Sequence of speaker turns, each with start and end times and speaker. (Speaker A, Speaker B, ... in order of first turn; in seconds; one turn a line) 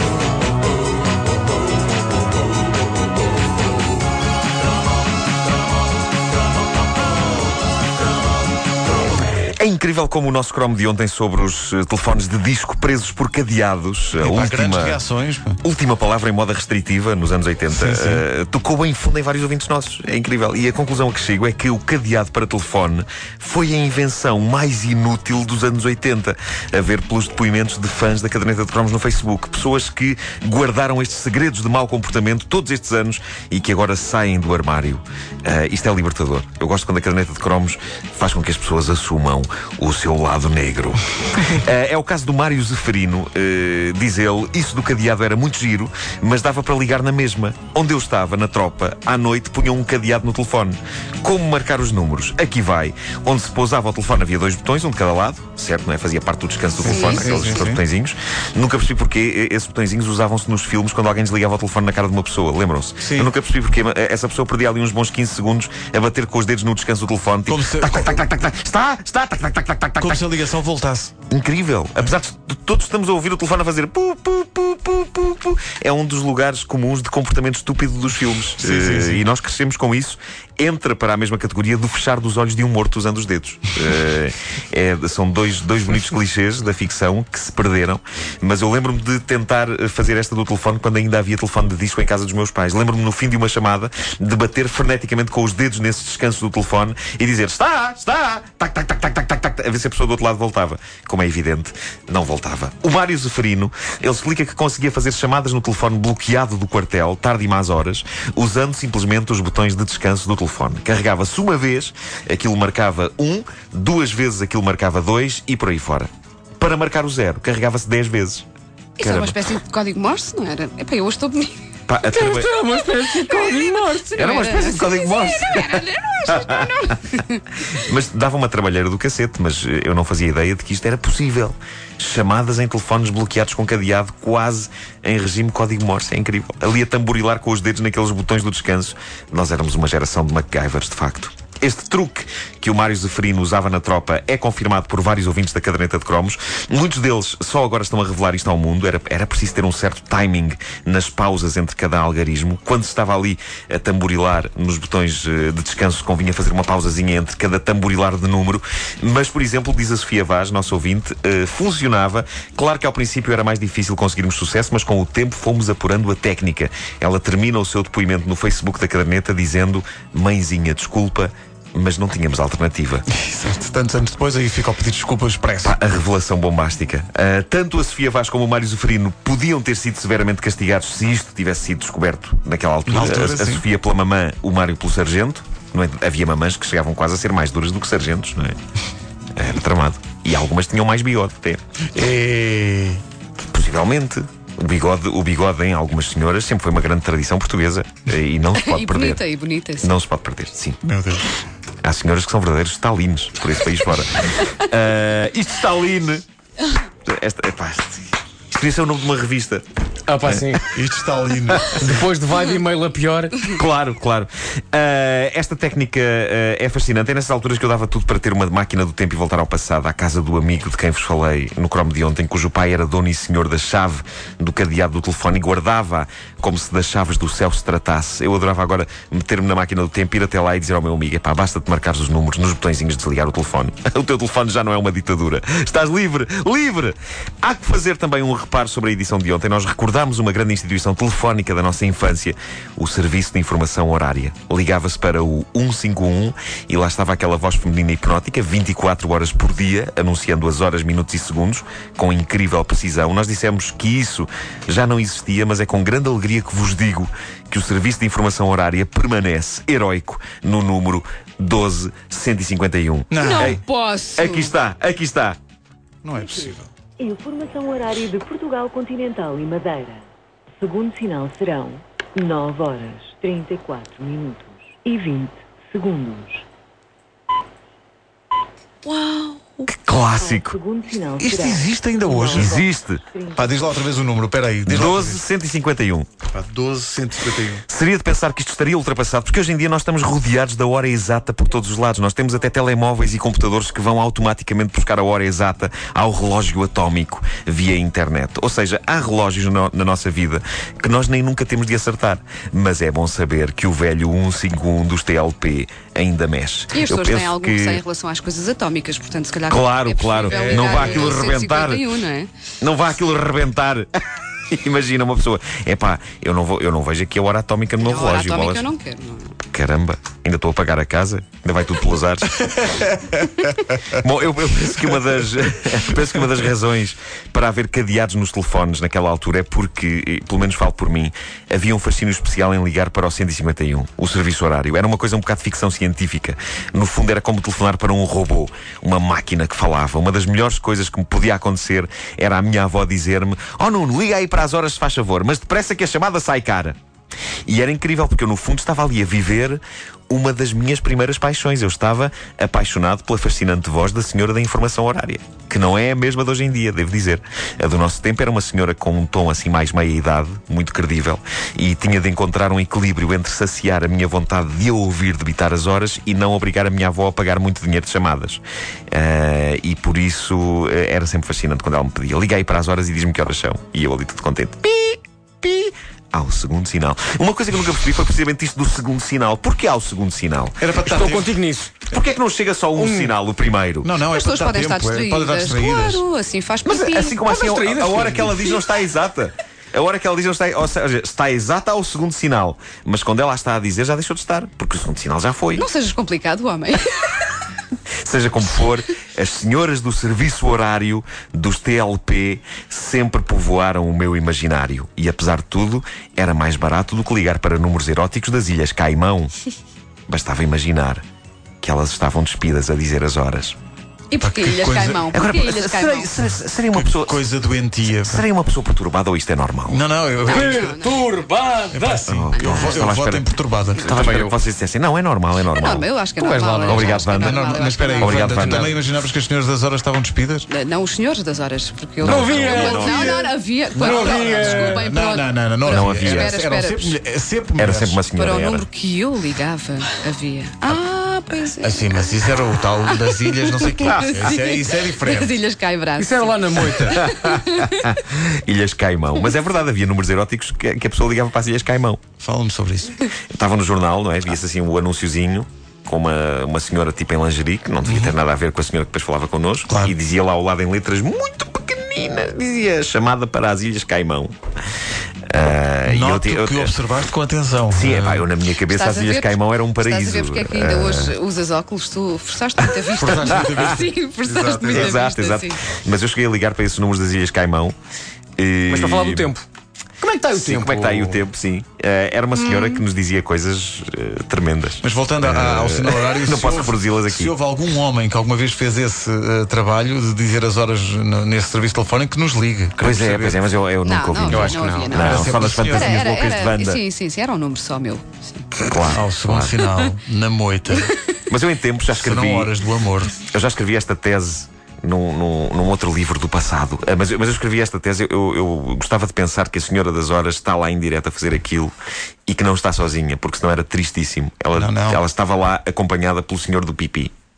Speaker A: 9.5-15.0
Speaker B: 14.2-15.6
Speaker A: 15.6-70.3
Speaker B: 17.7-18.2
Speaker C: 56.8-57.6
Speaker B: 56.8-57.8
Speaker B: 63.0-63.3
Speaker B: 67.5-68.2
Speaker B: 70.0-71.1
Speaker A: 71.3-118.5
Speaker B: 78.6-79.2
Speaker C: 119.0-121.6
Speaker A: 119.0-119.4
Speaker A: 121.9-122.5
Speaker D: 122.1-124.7
Speaker C: 123.2-127.4
Speaker A: 124.1-126.7
Speaker A: 127.7-173.1
Speaker B: 173.1-175.8
Speaker A: 175.6-188.6
Speaker B: 182.9-183.6
Speaker A: 189.4-191.6
Speaker B: 191.9-193.0
Speaker A: 193.5-199.2
Speaker C: 198.5-199.9
Speaker A: 199.8-200.8
Speaker B: 200.8-201.3
Speaker A: 201.8-206.2
Speaker A: 207.1-209.7
Speaker D: 210.1-210.7
Speaker A: 210.2-210.5
Speaker B: 210.7-211.8
Speaker D: 211.8-213.5
Speaker A: 213.4-263.6
Speaker B: 263.1-263.6
Speaker C: 263.2-264.5
Speaker A: 264.2-265.4
Speaker B: 266.0-266.7
Speaker E: 267.0-270.1
Speaker E: 270.6-276.4
Speaker C: 278.8-279.7
Speaker A: 279.7-280.6
Speaker E: 280.2-283.6
Speaker B: 281.2-282.6
Speaker A: 282.3-283.0
Speaker B: 283.3-285.2
Speaker A: 284.7-286.1
Speaker B: 286.3-287.6
Speaker A: 287.7-307.8
Speaker C: 306.7-312.3
Speaker A: 309.5-311.9
Speaker B: 310.3-311.2
Speaker A: 312.6-313.9
Speaker A: 314.5-318.7
Speaker C: 317.8-319.4
Speaker A: 319.4-323.0
Speaker A: 323.8-346.8
Speaker A: 347.5-380.7
Speaker B: 380.6-381.3
Speaker D: 380.8-381.8
Speaker A: 381.9-384.0
Speaker D: 382.8-383.1
Speaker B: 383.8-386.0
Speaker C: 384.1-387.2
Speaker A: 386.6-395.7
Speaker D: 387.2-388.6
Speaker C: 395.6-397.3
Speaker A: 398.0-409.3
Speaker A: 410.1-411.0
Speaker A: 411.6-413.6
Speaker C: 414.1-416.2
Speaker B: 414.2-415.1
Speaker A: 415.1-417.2
Speaker B: 416.7-418.2
Speaker A: 417.9-419.8
Speaker B: 419.7-420.8
Speaker C: 420.2-421.1
Speaker D: 420.3-422.1
Speaker B: 421.7-423.9
Speaker A: 422.1-425.9
Speaker C: 422.4-422.9
Speaker D: 423.8-424.3
Speaker C: 425.5-428.6
Speaker D: 426.2-427.0
Speaker A: 426.7-428.7
Speaker B: 427.2-430.5
Speaker C: 430.5-437.0
Speaker D: 432.0-433.2
Speaker A: 432.0-433.2
Speaker B: 432.5-433.2
Speaker D: 433.8-435.0
Speaker B: 433.8-438.0
Speaker A: 435.7-436.4
Speaker A: 437.6-438.7
Speaker C: 438.2-442.3
Speaker B: 441.6-445.4
Speaker C: 442.8-447.9
Speaker A: 443.9-444.2
Speaker D: 446.0-447.1
Speaker A: 446.9-452.0
Speaker B: 452.2-453.0
Speaker A: 453.3-464.3
Speaker B: 457.9-458.1
Speaker B: 459.7-459.9
Speaker A: 465.3-466.7
Speaker B: 465.9-468.3
Speaker A: 467.7-471.1
Speaker C: 468.7-475.6
Speaker B: 473.0-475.0
Speaker A: 473.3-473.6
Speaker A: 474.5-477.8
Speaker A: 478.4-479.3
Speaker D: 478.7-479.5
Speaker D: 480.0-481.2
Speaker A: 480.3-487.4
Speaker C: 482.3-482.8
Speaker B: 484.8-493.4
Speaker A: 492.8-496.8
Speaker C: 493.8-498.5
Speaker D: 494.3-495.0
Speaker B: 495.0-496.0
Speaker A: 498.7-499.6
Speaker B: 498.9-501.0
Speaker A: 501.3-502.5
Speaker B: 501.9-503.2
Speaker A: 503.3-511.7
Speaker A: 512.3-517.1
Speaker B: 514.5-515.0